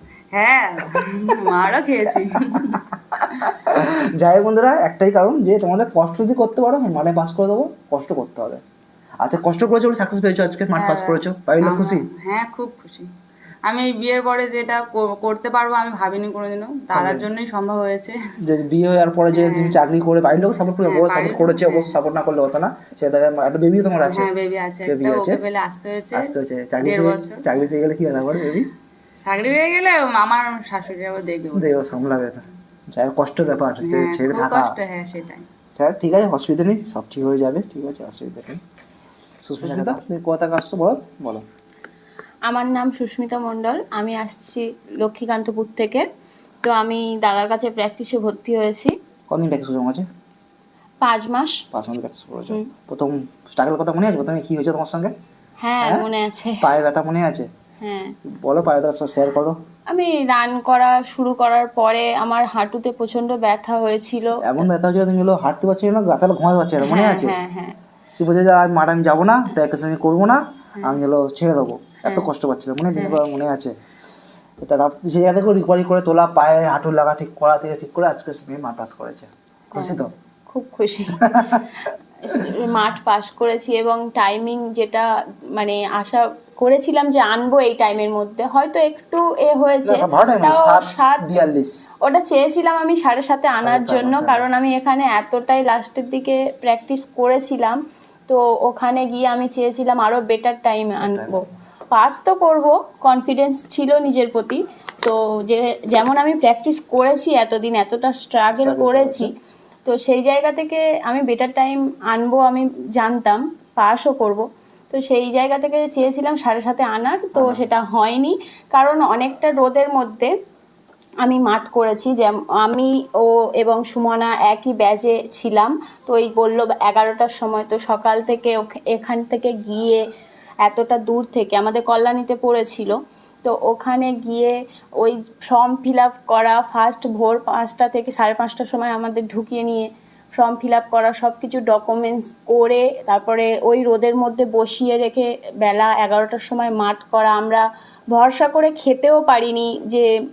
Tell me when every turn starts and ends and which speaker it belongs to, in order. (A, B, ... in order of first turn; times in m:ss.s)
0:00.3-0:02.8 A
0:02.2-0:08.6 B
0:09.2-0:12.0 B
0:10.8-0:13.1 A
0:13.7-0:18.2 A
0:16.9-0:17.3 B
0:18.4-0:24.3 B
0:19.3-0:19.8 A
0:20.8-0:22.0 A
0:24.0-0:27.5 A
0:24.8-0:25.4 B
0:26.1-0:28.7 B
0:29.2-0:32.2 A
0:31.4-0:34.7 B
0:33.8-0:35.5 A
0:35.8-0:38.6 B
0:39.4-0:41.4 B
0:42.5-0:46.0 C
0:46.6-0:48.9 C
0:49.3-0:50.1 B
0:51.0-0:51.6 C
0:51.7-0:55.1 B
0:55.6-0:56.6 C
0:56.6-0:57.5 B
0:57.8-0:58.2 C
0:58.4-0:59.6 B
0:59.9-1:04.7 C
1:04.4-1:07.4 B
1:06.8-1:07.8 C
1:08.1-1:13.7 B
1:14.6-1:20.1 B
1:19.8-1:21.4 C
1:21.2-1:21.7 B
1:22.3-1:25.0 C
1:25.6-1:31.3 C
1:29.8-1:31.9 B
1:32.0-1:41.4 C
1:33.6-1:34.5 B
1:41.0-1:41.5 B
1:41.9-1:49.3 C
1:48.6-1:49.3 B
1:49.9-2:00.3 C
1:57.3-1:57.6 B
2:01.2-2:10.0 C
2:10.6-2:12.9 C
2:13.4-2:30.1 C